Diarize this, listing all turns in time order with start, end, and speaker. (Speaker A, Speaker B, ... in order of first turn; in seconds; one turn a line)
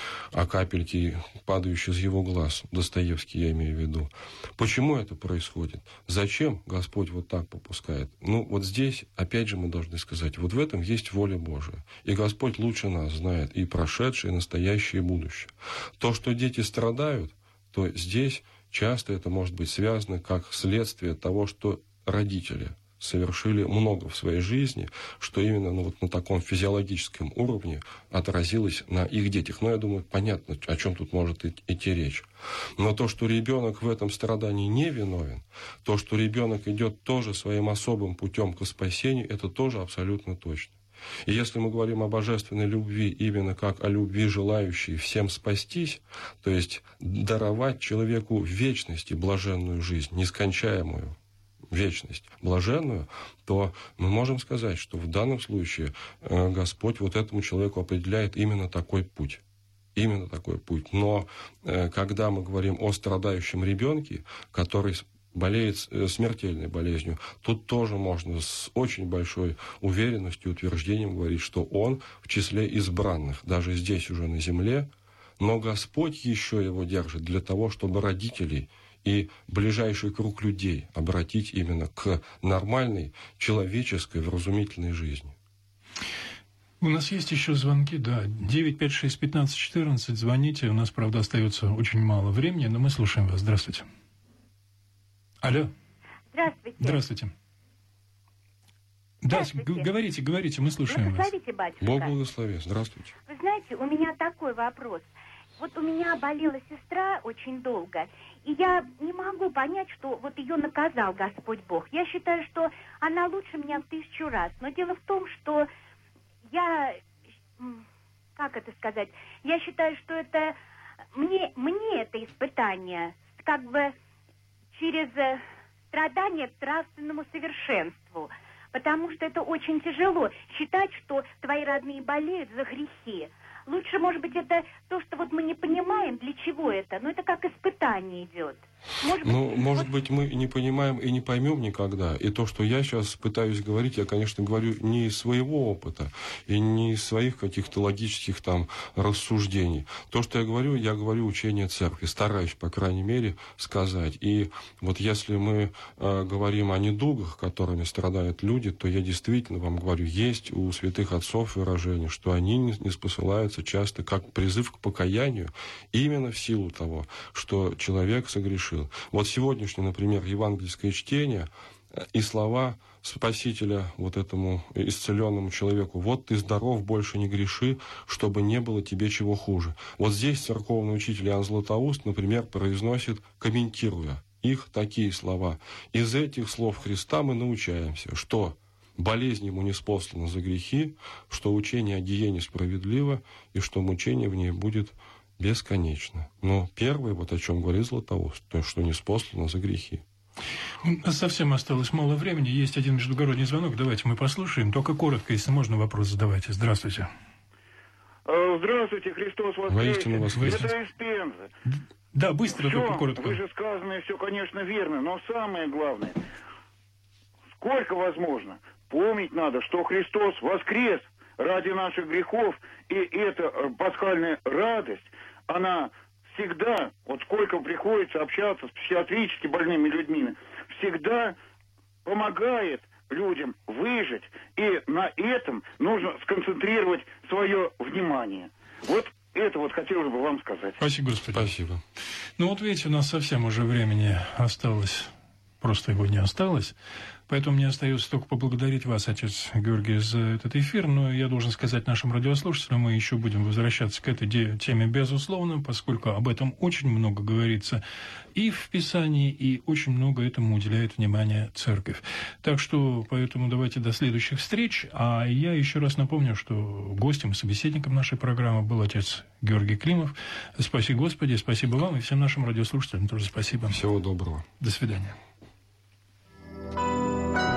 Speaker A: 0.3-51.1
Speaker A: 51.7-59.4
Speaker A: 59.9-85.3
Speaker B: 86.8-93.8
Speaker B: 95.4-95.7
Speaker C: 96.3-97.0
Speaker B: 96.8-97.3
Speaker B: 99.2-101.3
Speaker C: 99.3-99.9
Speaker C: 100.9-102.1
Speaker A: 101.8-103.1
Speaker C: 103.3-115.7
Speaker C: 116.5-117.0
Speaker C: 117.6-117.8
Speaker C: 118.3-120.5
Speaker C: 121.1-123.9
Speaker C: 124.7-139.9
Speaker A: 139.2-200.0
Speaker B: 200.8-207.1
Speaker D: 208.2-211.5
Speaker A: 209.7-210.7
Speaker B: 210.3-210.7
Speaker B: 211.7-213.4
Speaker D: 212.5-216.2
Speaker D: 217.6-231.4
Speaker D: 232.0-240.8
Speaker B: 240.8-241.5
Speaker A: 241.3-241.8
Speaker B: 242.4-246.7
Speaker B: 247.3-257.8
Speaker B: 258.3-273.8
Speaker A: 273.7-274.4
Speaker B: 274.6-275.2